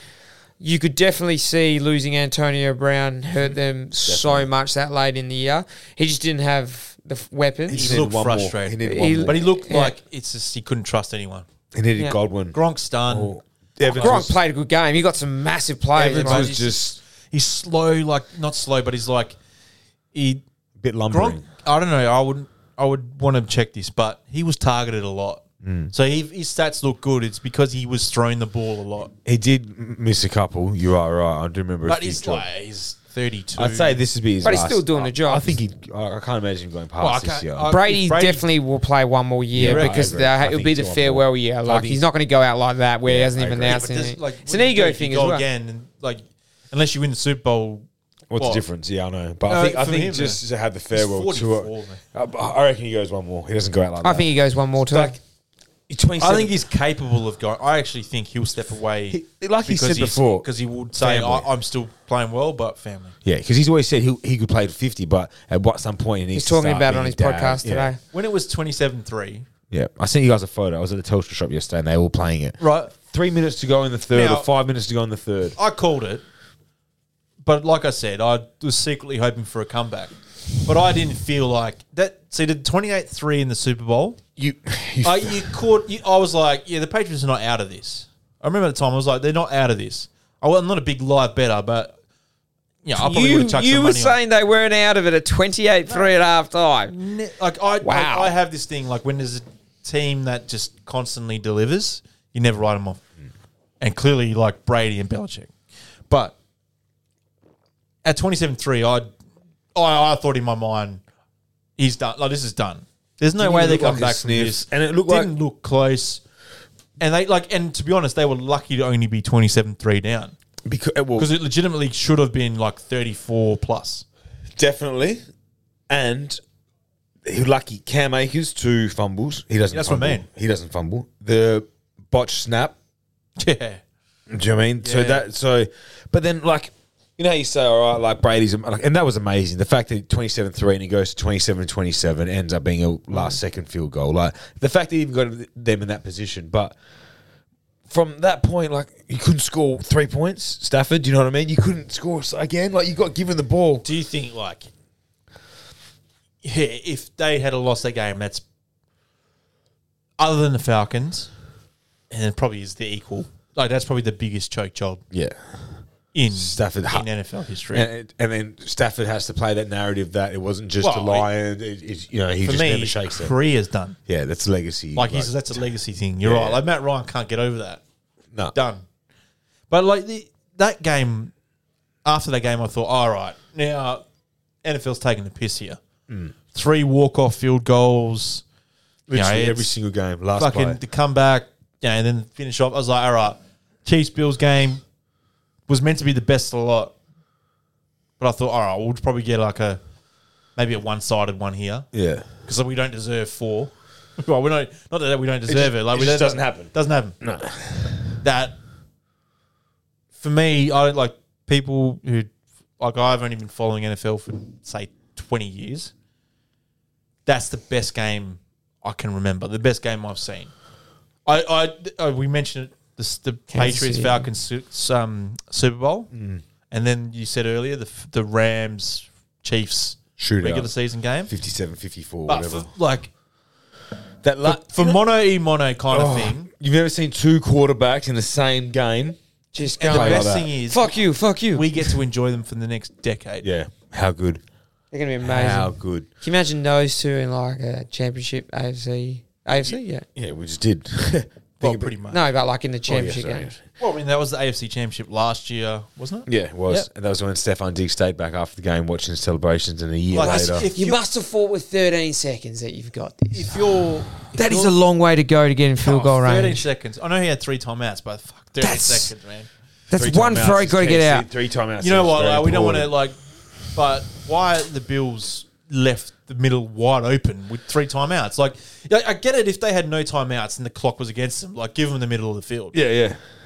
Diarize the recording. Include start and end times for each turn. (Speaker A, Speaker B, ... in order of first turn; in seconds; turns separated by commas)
Speaker A: 0.6-8.0, Speaker B: 4.0-4.5, Speaker B: 7.7-9.4, Speaker C: 7.7-11.4, Speaker A: 8.8-9.9, Speaker B: 11.7-12.6, Speaker C: 12.5-13.3, Speaker B: 13.1-14.3, Speaker A: 13.8-16.7, Speaker C: 13.9-14.2, Speaker B: 15.9-17.0, Speaker C: 16.2-16.8, Speaker C: 17.3-19.4, Speaker C: 20.1-20.4, Speaker B: 20.8-21.4, Speaker C: 21.1-29.1, Speaker B: 25.6-25.9, Speaker B: 29.2-32.5, Speaker C: 31.9-34.0, Speaker B: 33.5-37.7, Speaker A: 34.4-35.5, Speaker C: 37.0-38.4, Speaker A: 37.7-45.5, Speaker B: 39.5-42.0, Speaker C: 39.6-40.1, Speaker B: 43.0-43.8, Speaker C: 43.6-48.6, Speaker B: 48.3-54.3, Speaker C: 49.5-52.0, Speaker A: 54.0-55.1, Speaker B: 54.8-55.2, Speaker B: 55.9-56.5, Speaker C: 56.2-63.1, Speaker B: 59.1-60.5, Speaker B: 61.0-61.5, Speaker B: 63.2-67.9, Speaker A: 66.3-68.0, Speaker C: 68.1-69.4, Speaker B: 69.7-75.5, Speaker C: 72.6-72.9, Speaker C: 74.1-74.5, Speaker C: 75.6-76.2, Speaker C: 77.4-80.1, Speaker C: 80.6-84.2, Speaker B: 84.4-85.5, Speaker C: 85.0-91.9, Speaker C: 92.8-94.2, Speaker A: 92.9-96.9, Speaker C: 96.9-103.0, Speaker A: 97.8-98.3, Speaker C: 103.8-105.5, Speaker C: 106.1-106.3, Speaker C: 108.0-109.1, Speaker C: 109.7-111.0, Speaker C: 111.8-116.2, Speaker B: 113.4-115.3, Speaker C: 117.0-120.3, Speaker B: 120.6-121.3, Speaker C: 121.2-124.0, Speaker B: 124.5-125.2, Speaker B: 125.9-126.4, Speaker B: 127.2-132.7, Speaker C: 129.7-130.2, Speaker C: 133.4-133.8, Speaker B: 134.3-146.7, Speaker C: 134.8-135.2, Speaker B: 147.9-153.8, Speaker C: 153.8-154.7, Speaker C: 156.4-158.4, Speaker C: 160.2-161.3, Speaker C: 162.1-165.0, Speaker B: 165.1-165.8, Speaker C: 166.1-167.9, Speaker B: 166.3-167.1, Speaker B: 167.7-173.3, Speaker C: 170.8-171.3, Speaker C: 172.4-174.0, Speaker B: 174.1-175.6, Speaker C: 174.9-177.8, Speaker B: 176.2-176.6, Speaker C: 178.5-178.8, Speaker C: 179.7-181.3, Speaker C: 182.0-184.0, Speaker C: 184.6-185.8, Speaker B: 186.1-186.3, Speaker C: 186.5-188.4, Speaker B: 189.1-190.8, Speaker C: 189.1-189.7, Speaker C: 190.3-194.8, Speaker C: 195.7-196.9, Speaker C: 198.2-199.8, Speaker C: 200.6-201.9, Speaker B: 201.9-202.2, Speaker C: 202.4-207.2, Speaker B: 205.5-208.2, Speaker C: 208.2-208.6, Speaker C: 210.2-215.9, Speaker C: 217.2-220.5, Speaker C: 221.2-226.1, Speaker A: 223.5-224.2, Speaker B: 226.1-226.4, Speaker C: 226.7-231.3, Speaker B: 230.2-230.7, Speaker B: 231.3-232.7, Speaker C: 232.3-233.1, Speaker B: 234.2-235.0, Speaker C: 234.4-236.5, Speaker B: 235.9-239.2, Speaker A: 239.5-241.8, Speaker B: 239.8-240.5, Speaker C: 239.8-240.9, Speaker C: 241.5-243.5, Speaker B: 243.4-244.4, Speaker A: 244.9-250.0, Speaker B: 245.2-246.1, Speaker B: 249.6-251.9, Speaker C: 251.6-252.2, Speaker A: 252.1-253.5, Speaker B: 252.9-253.5, Speaker C: 253.8-256.9, Speaker B: 256.3-260.7, Speaker C: 260.1-261.0, Speaker A: 260.7-263.6, Speaker C: 263.3-264.7, Speaker A: 264.3-266.6, Speaker C: 265.8-269.5, Speaker A: 268.6-269.1, Speaker A: 269.9-271.2, Speaker B: 269.9-272.9, Speaker C: 271.8-273.1, Speaker C: 273.7-282.8, Speaker B: 282.7-283.2